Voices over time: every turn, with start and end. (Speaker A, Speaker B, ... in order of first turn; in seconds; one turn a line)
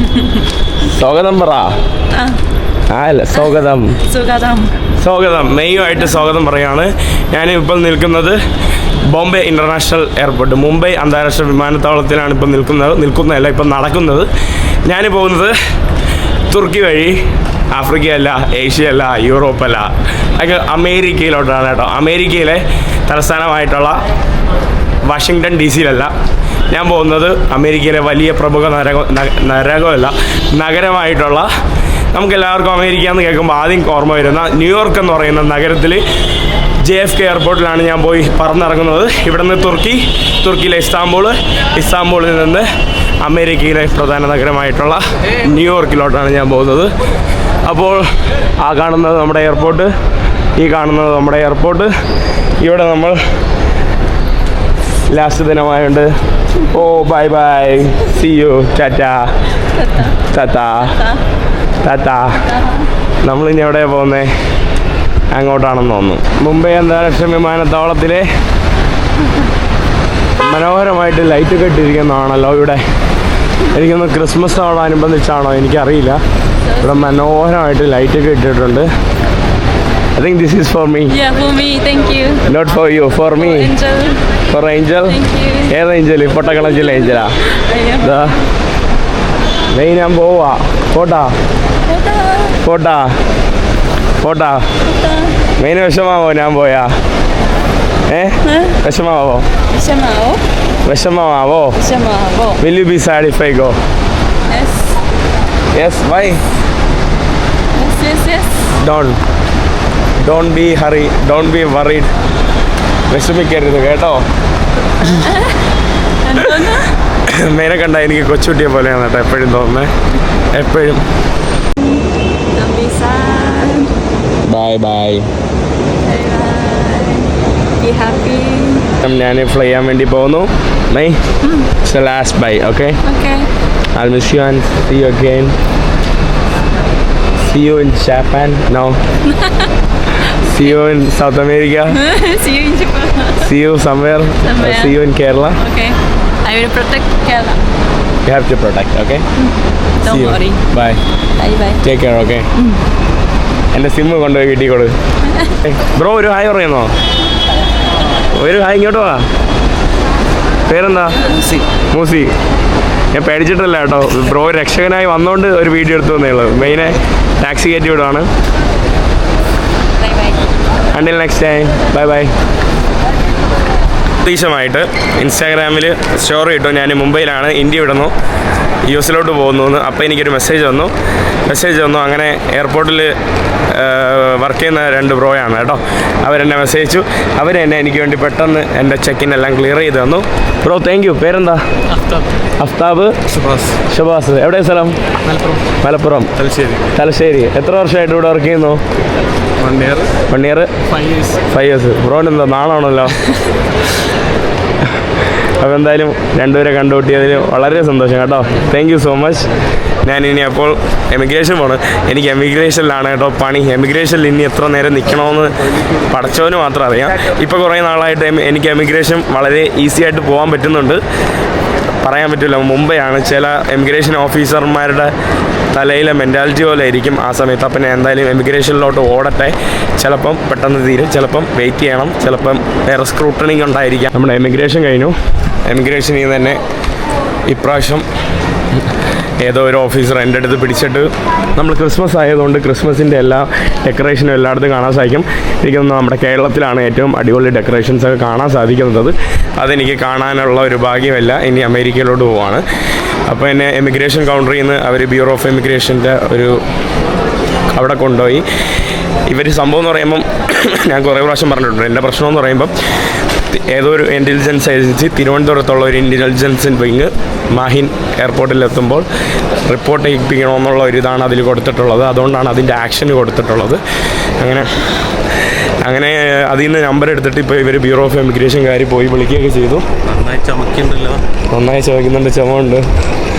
Speaker A: 0.8-1.8
Speaker B: 2.1-2.4
Speaker A: 2.9-4.0
Speaker B: 4.0-4.8
Speaker A: 5.0-8.4
Speaker A: 9.1-14.3
Speaker A: 14.8-15.6
Speaker A: 16.5-24.0
Speaker A: 25.1-26.1
Speaker A: 26.7-31.5
Speaker A: 32.1-36.0
Speaker A: 36.8-42.7
Speaker A: 43.2-46.9
Speaker A: 47.6-49.9
Speaker A: 50.6-51.9
Speaker A: 52.6-53.2
Speaker A: 55.1-59.4
Speaker B: 59.8-60.1
Speaker A: 60.1-61.1
Speaker A: 61.8-62.5
Speaker A: 63.2-64.3
Speaker A: 65.3-68.3
Speaker A: 70.4-72.8
Speaker A: 73.6-76.2
Speaker A: 76.8-78.9
Speaker A: 80.2-81.2
Speaker B: 81.1-82.5
Speaker A: 82.5-83.8
Speaker B: 83.3-84.3
Speaker A: 84.5-88.4
Speaker B: 85.1-85.7
Speaker B: 86.9-88.4
Speaker A: 89.7-91.3
Speaker B: 91.9-92.6
Speaker A: 92.6-93.2
Speaker A: 94.2-94.7
Speaker B: 94.8-95.4
Speaker A: 95.6-97.0
Speaker A: 98.1-99.5
Speaker B: 98.5-98.8
Speaker B: 99.7-100.5
Speaker A: 100.8-101.8
Speaker B: 101.8-102.6
Speaker A: 102.6-103.8
Speaker B: 104.5-105.0
Speaker A: 105.7-106.4
Speaker B: 107.7-108.7
Speaker A: 108.8-109.2
Speaker A: 110.2-112.1
Speaker A: 113.1-114.2
Speaker B: 115.0-115.7
Speaker B: 116.2-116.9
Speaker A: 116.3-120.0
Speaker A: 120.5-121.1
Speaker B: 121.8-124.0
Speaker A: 124.5-125.3
Speaker B: 126.0-128.9
Speaker A: 129.0-131.2
Speaker A: 131.8-133.0
Speaker B: 133.0-133.5
Speaker A: 133.9-135.6
Speaker A: 137.4-139.0
Speaker B: 139.3-139.7
Speaker A: 140.2-142.0
Speaker B: 141.9-143.5
Speaker A: 143.4-145.6
Speaker B: 144.4-144.9
Speaker B: 145.6-147.6
Speaker A: 148.3-149.2
Speaker B: 149.4-150.6
Speaker A: 150.0-151.0
Speaker B: 151.4-151.8
Speaker A: 151.8-152.5
Speaker B: 152.6-152.8
Speaker A: 153.7-154.9
Speaker A: 155.6-156.9
Speaker A: 158.2-159.3
Speaker A: 160.7-161.2
Speaker A: 161.8-162.3
Speaker A: 163.1-168.3
Speaker B: 170.0-170.4
Speaker A: 170.9-172.3
Speaker A: 174.2-178.1
Speaker A: 178.9-180.9
Speaker A: 181.5-183.2
Speaker A: 183.7-191.6
Speaker C: 192.0-192.2
Speaker A: 192.6-193.2
Speaker C: 193.3-193.8
Speaker A: 193.8-195.0
Speaker C: 195.2-195.6
Speaker A: 195.7-198.8
Speaker C: 196.4-196.9
Speaker C: 199.6-200.1
Speaker A: 200.1-200.7
Speaker C: 200.9-201.4
Speaker A: 201.3-203.2
Speaker A: 205.0-221.0
Speaker A: 222.0-225.1
Speaker A: 225.7-236.6
Speaker A: 237.5-238.1
Speaker A: 238.8-252.6
Speaker A: 253.3-256.6
Speaker A: 257.7-258.5
Speaker A: 259.3-262.8
Speaker A: 263.4-273.8
Speaker A: 274.4-279.8
Speaker C: 280.1-281.2
Speaker A: 281.5-282.9